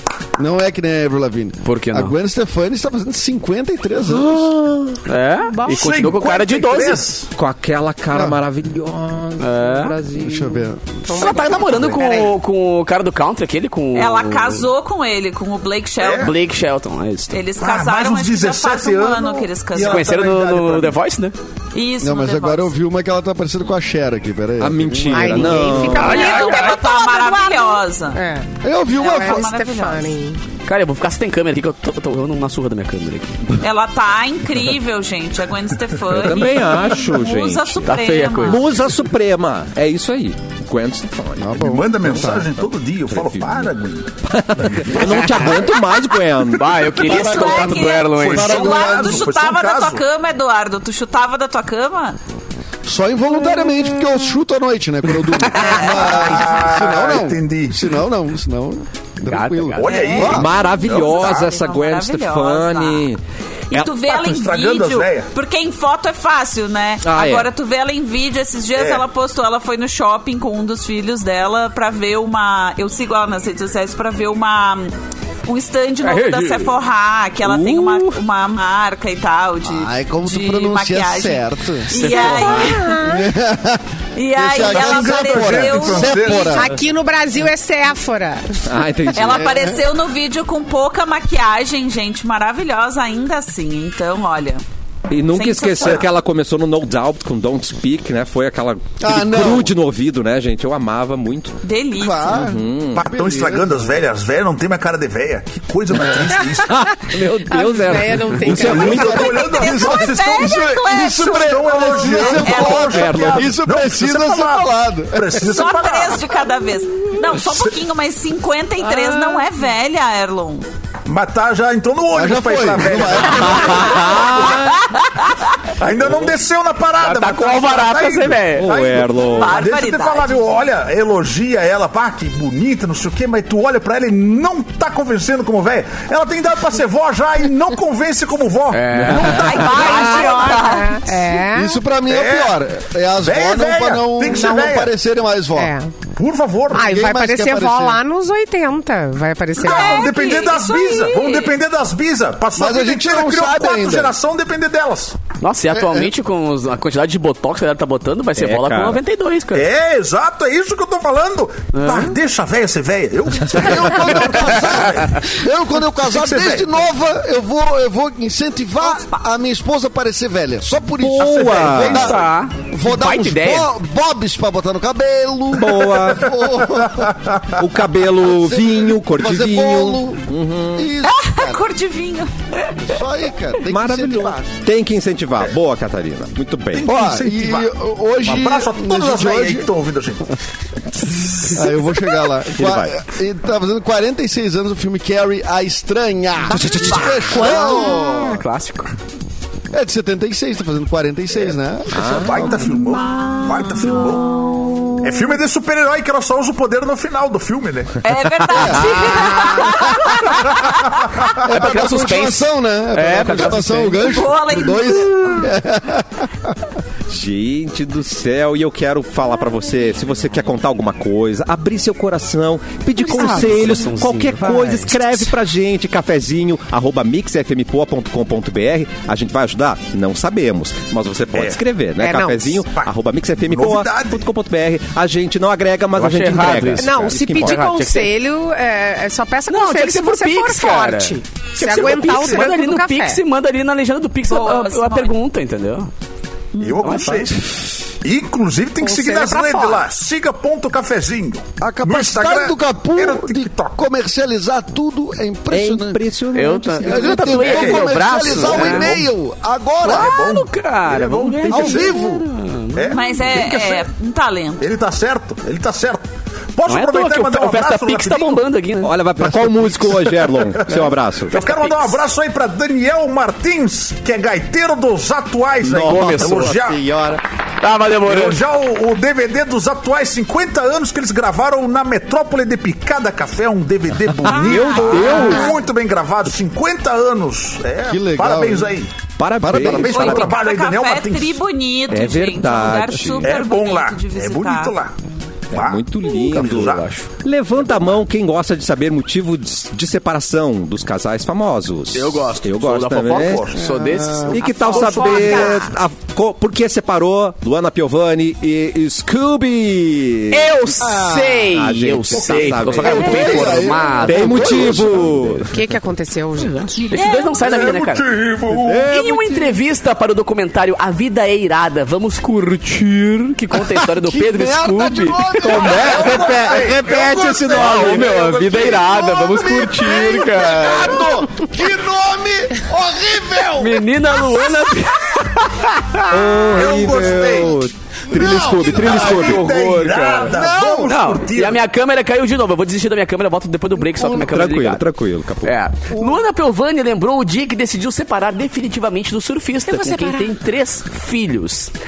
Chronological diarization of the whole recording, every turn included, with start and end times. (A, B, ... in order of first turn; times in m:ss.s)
0:00.4-0:04.4 A
0:01.6-0:02.2 B
0:04.3-0:05.0 C
0:05.0-0:07.0 B
0:05.5-0:05.9 D
0:05.7-0:07.3 E
0:07.4-0:10.5 C
0:08.1-0:08.4 A
0:09.4-0:10.0 B
0:10.1-0:10.8 A
0:11.1-0:12.3 D
0:11.1-0:14.6 B
0:14.0-0:16.4 F
0:16.0-0:16.4 E
0:16.2-0:17.4 B
0:17.3-0:20.1 F
0:17.6-0:21.0 E
0:19.8-0:21.4 B
0:21.7-0:22.7 F
0:22.0-0:25.8 A
0:24.6-0:26.4 C
0:25.1-0:28.5 D
0:25.9-0:28.2 F
0:26.4-0:26.7 B
0:28.6-0:29.5 A
0:29.0-0:30.2 F
0:29.0-0:30.4 D
0:30.7-0:33.6 B
0:33.6-0:38.7 F
0:36.1-0:42.4 C
0:37.9-0:38.6 B
0:41.4-0:42.5 A
0:41.6-0:44.1 E
0:43.1-0:43.7 C
0:44.2-0:47.1 C
0:44.6-0:44.9 E
0:45.0-0:45.5 B
0:46.5-0:48.6 B
0:47.0-0:52.2 F
0:47.0-0:49.3 A
0:48.1-0:50.0 E
0:52.9-1:00.5 A
0:55.5-0:55.8 B
0:55.8-0:57.8 E
0:59.3-1:00.2 B
0:59.8-1:01.6 E
0:59.9-1:03.1 F
1:00.2-1:03.2 C
1:03.7-1:14.9 F
1:04.0-1:05.3 E
1:07.0-1:07.5 C
1:08.8-1:09.0 E
1:15.5-1:23.0 F
1:16.0-1:16.8 B
1:17.4-1:18.2 B
1:19.6-1:21.9 A
1:22.0-1:22.8 B
1:22.0-1:23.3 D
1:23.0-1:26.7 A
1:24.2-1:26.7 F
1:24.6-1:26.6 E
1:26.5-1:28.6 D
1:28.7-1:29.5 C
1:29.1-1:34.6 F
1:29.2-1:29.8 A
1:35.1-1:41.6 C
1:35.3-1:36.1 F
1:39.0-1:39.7 A
1:41.6-1:42.4 F
1:42.0-1:43.9 A
1:42.3-1:43.1 C
1:43.0-1:46.8 E
1:46.6-1:49.3 C
1:47.0-1:49.4 D
1:48.5-1:56.3 E
1:48.7-1:55.5 A
1:49.0-1:53.0 F
1:52.8-1:53.6 C
1:55.4-2:00.7 F
2:01.1-2:04.2 E
2:02.1-2:04.0 A
2:03.4-2:04.9 C
2:04.4-2:05.5 F
2:05.8-2:19.0 E
2:07.0-2:08.7 B
2:08.5-2:09.7 C
2:09.2-2:10.6 F
2:18.7-2:19.5 B
2:19.0-2:20.4 C
2:19.1-2:21.3 F
2:19.6-2:21.8 D
2:21.5-2:25.7 A
2:22.1-2:22.6 E
2:23.2-2:24.9 E
2:24.3-2:24.7 D
2:25.6-2:25.9 D
2:26.2-2:26.9 E
2:26.7-2:30.2 D
2:26.8-2:28.0 A
2:29.6-2:35.2 E
2:29.6-2:31.6 F
2:32.6-2:34.2 A
2:35.4-2:39.7 B
2:35.7-2:36.1 A
2:38.4-2:39.0 C
2:39.5-2:45.2 E
2:41.7-2:42.1 B
2:43.5-2:52.2 A
2:46.1-2:46.8 E
2:51.0-2:52.1 C
2:51.2-2:52.2 E
2:51.9-2:53.7 B
2:52.7-2:57.1 A
2:55.5-2:56.4 C
2:57.0-2:57.4 E
2:57.6-3:00.9 C
2:58.1-3:01.6 A
3:01.0-3:02.9 F
3:02.8-3:04.5 A
3:03.7-3:06.9 C
3:06.7-3:07.7 E
3:06.8-3:09.7 A
3:08.2-3:10.3 E
3:11.5-3:18.4 A
3:12.6-3:12.9 C
3:16.5-3:17.7 C
3:17.2-3:18.9 B
3:19.7-3:22.7 A
3:21.9-3:22.6 C
3:22.1-3:24.3 E
3:25.0-3:28.0 E
3:28.0-3:31.4 F
3:28.5-3:29.3 C
3:28.6-3:29.9 A
3:31.4-3:36.5 A
3:31.4-3:34.1 B
3:34.0-3:35.6 F
3:37.1-3:57.6 C
3:43.1-3:43.6 D
3:43.1-3:45.1 B
3:51.3-3:51.6 E
3:52.0-3:52.6 D
3:53.4-3:54.2 E
3:56.0-3:58.1 B
3:56.8-4:03.2 D
3:59.5-4:05.9 B
4:04.3-4:05.1 F
4:06.6-4:07.4 E
4:06.8-4:07.4 B
4:08.0-4:13.8 E
4:08.8-4:09.9 D
4:11.6-4:16.0 A
4:15.5-4:17.5 C
4:16.3-4:19.0 B
4:16.8-4:20.1 A
4:17.4-4:18.9 E
4:19.8-4:23.0 B
4:19.9-4:22.0 E
4:21.5-4:22.2 A
4:22.7-4:23.9 E
4:22.9-4:24.7 F
4:24.6-4:28.4 E
4:26.7-4:29.0 B
4:28.8-4:31.4 C
4:30.2-4:36.8 E
4:31.3-4:31.9 B
4:35.6-4:37.2 C
4:35.7-4:36.6 B
4:37.6-4:38.4 B
4:38.0-4:48.9 E
4:44.2-4:45.6 C
4:44.3-4:45.6 F
4:47.9-4:48.8 A
4:49.2-4:50.3 C
4:49.4-4:50.3 A
4:49.5-4:51.4 E
4:49.8-4:54.8 F
4:51.9-4:53.4 C
4:53.2-4:54.9 E
4:55.5-4:56.9 E
4:55.5-5:03.5 C
4:56.2-4:57.1 B
5:01.9-5:04.6 B
5:03.1-5:03.6 E
5:03.6-5:04.4 A
5:04.3-5:10.5 C
5:04.4-5:05.7 D
5:04.4-5:05.6 E
5:10.3-5:15.4 B
5:10.8-5:11.5 A
5:11.5-5:15.5 C
5:12.1-5:12.9 E
5:12.8-5:15.2 A
5:15.5-5:16.8 D
5:16.4-5:18.1 B
5:16.9-5:17.4 F
5:17.0-5:18.9 E
5:18.6-5:19.6 C
5:18.9-5:25.7 B
5:23.8-5:27.8 A
5:25.4-5:28.0 C
5:25.6-5:29.0 E
5:27.5-5:31.1 B
5:28.7-5:33.9 A
5:33.6-5:36.1 B
5:36.0-5:39.6 C
5:36.5-5:37.6 E
5:38.1-5:38.8 A
5:38.5-5:41.6 E
5:38.8-5:40.4 B
5:40.3-5:41.0 A
5:40.9-5:44.9 B
5:44.0-5:45.6 C
5:45.4-5:51.7 B
5:45.9-5:46.2 A
5:49.7-5:50.3 D